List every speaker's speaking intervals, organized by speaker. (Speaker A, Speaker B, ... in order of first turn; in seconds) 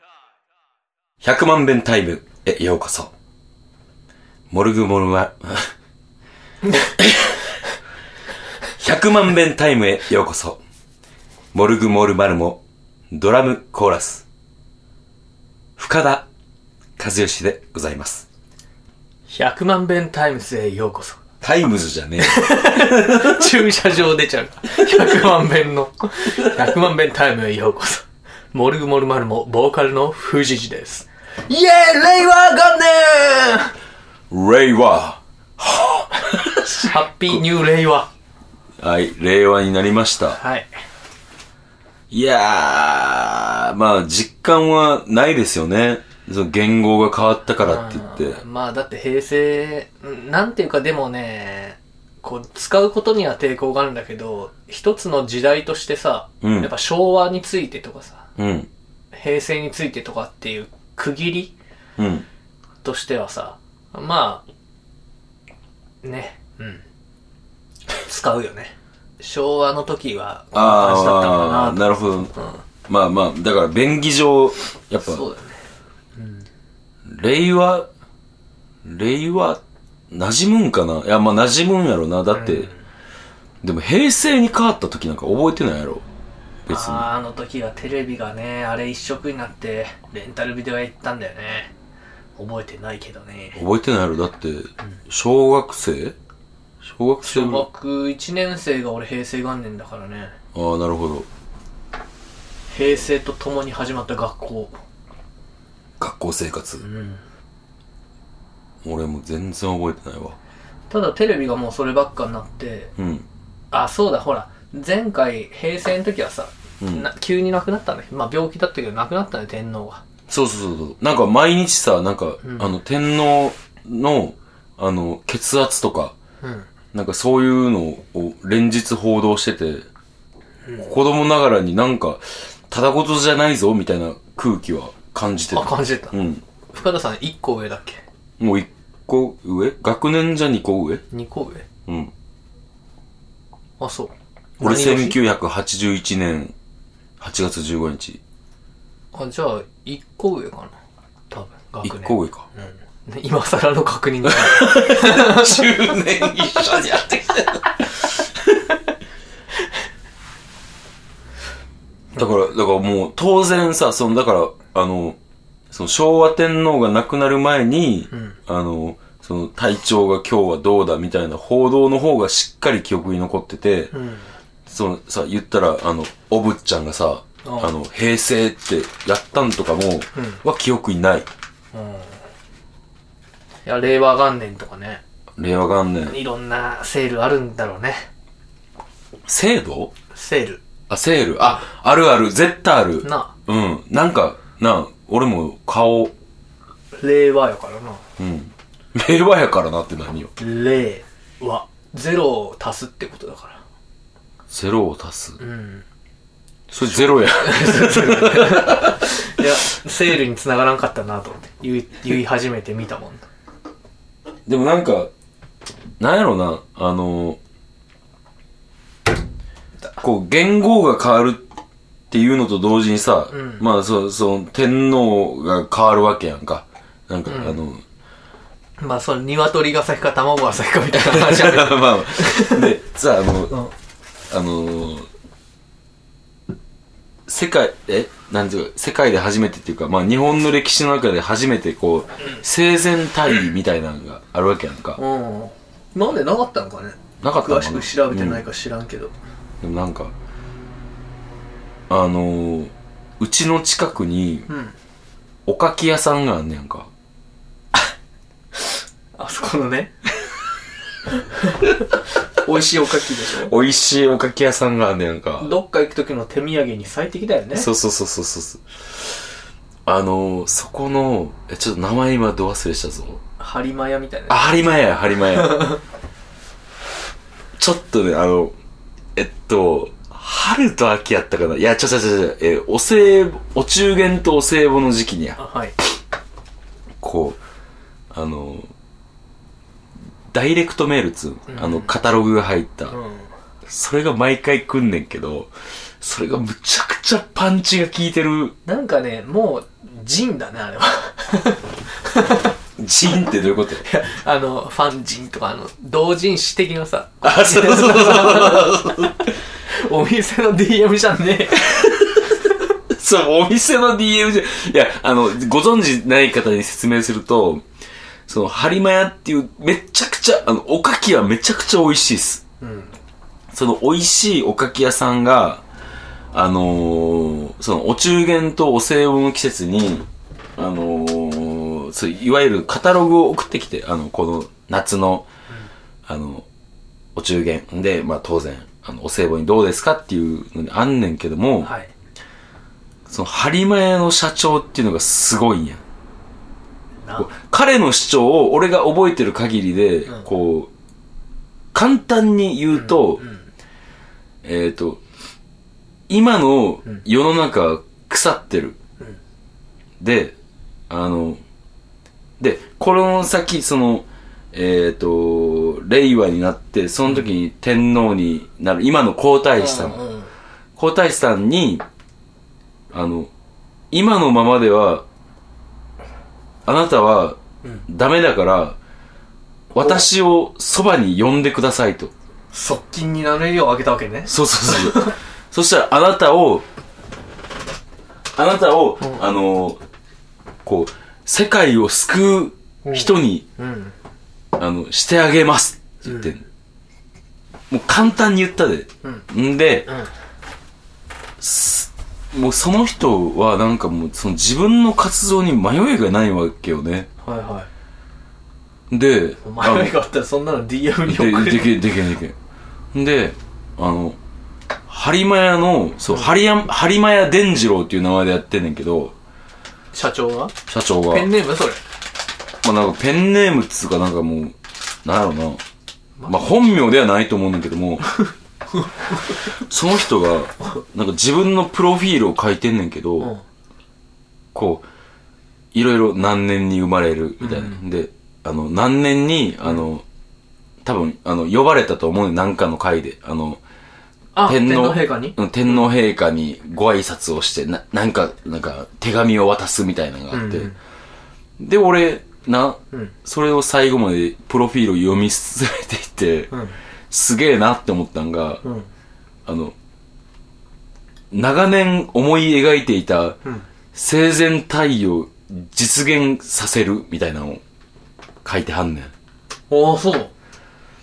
Speaker A: 1.2-3.1, 4.5-5.7, 6.7-7.5, 8.8-10.6, 11.5-14.2, 15.8-16.3, 17.0-18.2, 21.4-23.5, 34.3-37.4, 38.8-40.4, 42.1-48.4, 56.4-56.7, 58.4-58.7, 62.0-62.3, 70.5-72.3, 72.9-75.2, 77.1-77.9, 78.8-82.7, 83.6-86.0, 86.7-87.1, 93.5-96.2, 96.8-97.7, 100.5-101.3, 106.0-106.8, 108.8-110.4, 113.0-113.3, 116.8-117.1, 120.3-126.2, 126.9-129.9, 130.8-136.4, 138.4-141.0, 141.9-142.1, 144.6-146.5, 147.2-148.2, 151.8-152.5, 154.2-158.6, 162.2-165.2, 165.7-173.9, 174.7-181.3, 185.4-186.2, 189.2-189.9, 190.9-196.1, 198.2-200.3, 204.5-205.4, 206.7-209.1, 214.4-215.1, 216.0-217.4, 220.0-221.5, 222.1-227.8, 230.9-233.5, 234.3-235.1, 237.3-245.0, 247.2-248.4, 249.6-250.1, 251.9-254.5, 255.4-256.9, 263.3-265.5, 267.5-268.6, 269.9-273.2, 274.3-275.7, 277.6-278.5, 279.1-285.4, 287.0-287.4, 288.1-288.7, 290.3-292.9, 293.6-298.6, 302.8-303.9, 307.2-309.2, 311.8-312.3, 312.9-317.6, 318.3-322.4, 323.5-325.6, 326.3-335.3, 336.1-336.4, 337.1-341.7, 343.1-345.8, 347.2-350.7, 351.7-353.2, 354.4-355.0, 356.1-358.8, 360.0-360.3, 360.9-361.4, 362.4-370.0, 370.8-371.8, 372.9-373.3, 373.9-375.0, 376.6-378.8, 379.7-382.1, 384.3-386.6, 388.4-389.8, 390.6-393.4, 394.6-396.4, 397.7-399.9, 401.4-407.1, 408.9-409.9, 411.1-412.4, 412.9-414.2, 414.9-419.1, 420.7-421.3, 422.6-425.6, 426.3-428.1, 429.5-433.3, 434.5-434.8, 435.7-440.0, 440.8-443.6, 444.4-450.7, 451.6-456.5, 457.1-458.6, 459.4-459.7, 461.3-463.4, 463.9-467.6, 468.4-469.1
Speaker B: 19.3-21.2, 22.2-33.7, 36.7-38.1, 40.3-40.7, 47.6-58.3, 59.1-61.5, 62.8-64.4, 66.0-66.8, 67.9-71.8, 72.4-72.6, 75.0-75.6, 76.2-76.5, 82.3-82.8, 86.7-91.7, 92.4-93.6, 97.2-100.3, 102.7-104.7, 106.8-107.2, 110.9-112.9, 113.7-120.0, 122.4-122.7, 126.4-126.7, 135.5-136.2, 136.7-138.0, 141.1-141.7, 143.8-145.2, 149.1-150.7, 151.3-156.7, 168.1-168.4, 173.9-174.3, 177.4-177.7, 180.2-180.4, 181.7-182.2, 183.6-185.0, 186.1-188.1, 190.1-190.6, 193.0-193.3, 196.9-198.0, 200.4-203.6, 205.4-205.8, 206.9-213.2, 223.3-223.6, 227.3-227.6, 228.8-232.7, 245.0-249.1, 254.5-254.7, 259.1-259.9, 261.1-263.5, 265.4-267.7, 273.4-274.4, 275.3-275.8, 285.4-285.8, 291.5-291.9, 292.9-293.3, 298.6-302.5, 303.8-309.0, 309.6-312.4, 322.6-322.9, 341.6-341.9, 347.0-347.3, 352.7-353.4, 369.6-370.3, 379.8-380.0, 382.5-385.1, 392.8-393.9, 396.0-396.3, 399.9-400.1, 407.2-407.7, 409.4-411.8, 416.1-416.3, 419.9-420.5, 421.1-421.8, 426.2-426.6, 428.1-429.4, 437.4-437.8, 444.3-445.9, 450.3-450.8, 456.5-456.8, 458.6-458.9, 469.7-470.3